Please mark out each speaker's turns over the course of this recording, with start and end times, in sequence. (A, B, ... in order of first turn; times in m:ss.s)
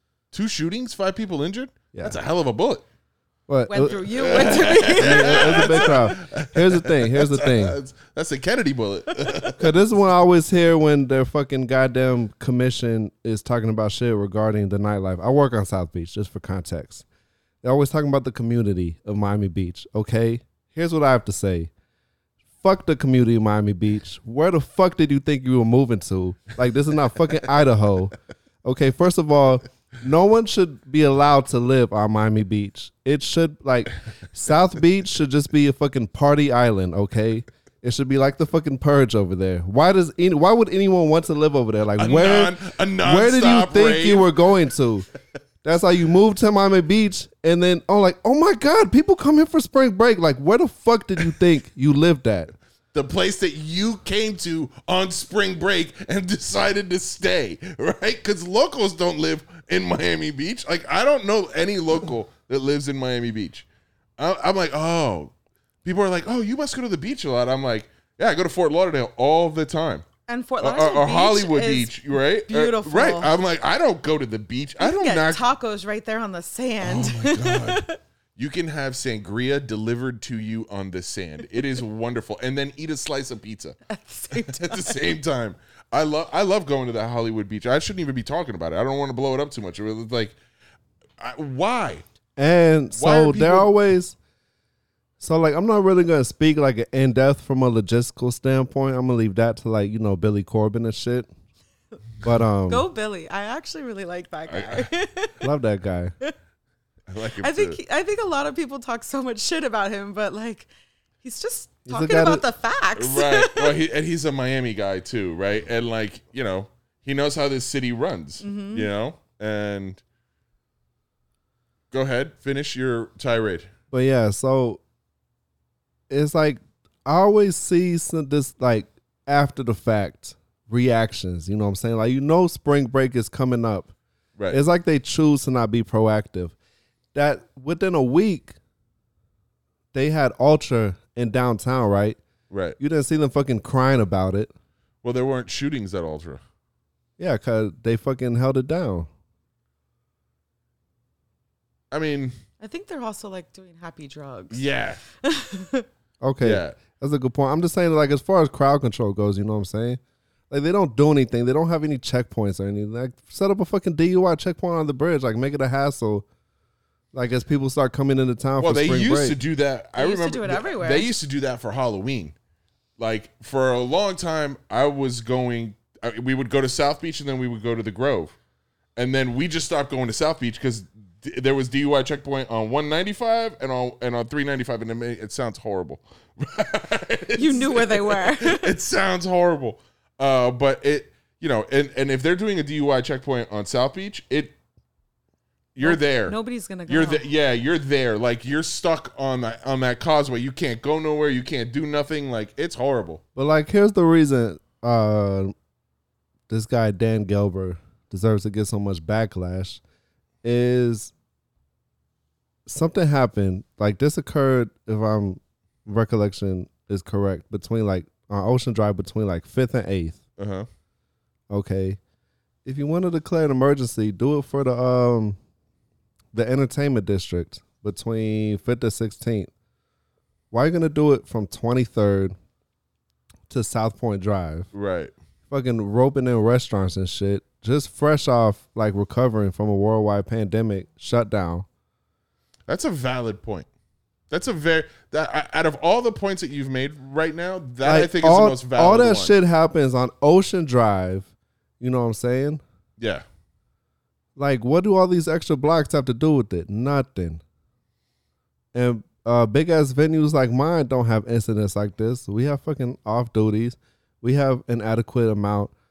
0:00.3-0:02.8 A
0:03.5-0:04.0 B
0:03.7-0:05.9 C
0:04.1-0:09.8 A
0:04.8-0:07.8 B
0:09.6-0:17.0 B
0:17.6-0:21.7 B
0:22.6-0:45.1 B
0:42.0-0:44.3 A
0:45.6-0:52.5 B
0:52.9-1:03.6 A
1:04.2-1:05.3 A
1:05.8-1:10.0 A
1:10.3-1:11.9 C
1:10.6-1:15.4 A
1:12.5-1:13.3 C
1:14.8-1:18.0 C
1:16.8-1:23.8 A
1:23.9-1:24.9 C
1:24.3-1:30.3 A
1:31.2-1:32.0 A
1:32.4-1:34.2 B
1:32.9-1:33.7 A
1:35.2-1:41.3 B
1:42.2-1:42.9 B
1:42.7-1:45.4 C
1:44.5-1:44.9 A
1:45.4-1:46.1 B
1:47.1-1:47.8 A
1:47.4-1:50.7 C
1:51.2-1:53.7 C
1:51.9-1:52.4 B
1:53.0-2:00.0 A
1:58.4-1:58.9 C
2:01.9-2:03.7 A
2:03.9-2:04.8 B
2:06.1-2:13.9 B
2:14.5-2:16.5 B
2:17.1-2:18.6 B
2:19.9-2:22.2 B
2:22.5-2:22.8 A
2:22.8-2:24.5 B
2:25.0-2:26.4 A
2:27.2-2:29.1 B
2:31.9-2:32.4 A
2:32.6-2:34.6 C
2:34.5-2:35.0 A
2:35.2-2:35.9 C
2:36.2-2:46.2 B
2:36.4-2:36.8 A
2:47.1-2:49.4 B
2:48.6-2:52.3 A
2:50.0-2:51.1 C
2:53.0-2:58.3 A
2:59.0-3:14.5 A
3:07.4-3:08.7 C
3:15.7-3:16.4 A
3:15.8-3:17.2 C
3:16.9-3:23.2 A
3:23.4-3:25.5 B
3:26.5-3:29.8 B
3:30.4-3:31.1 B
3:32.6-3:40.2 B
3:40.4-3:40.7 A
3:41.5-3:42.0 B
3:42.6-3:45.4 B
3:46.3-3:49.5 B
3:50.5-3:52.3 B
3:53.5-3:54.7 B
3:54.7-3:55.1 A
3:55.5-4:01.6 B
4:02.7-4:03.7 A
4:04.3-4:09.3 A
4:07.8-4:11.3 B
4:11.8-4:12.6 B
4:13.0-4:13.2 A
4:14.4-4:17.4 B
4:18.7-4:25.7 B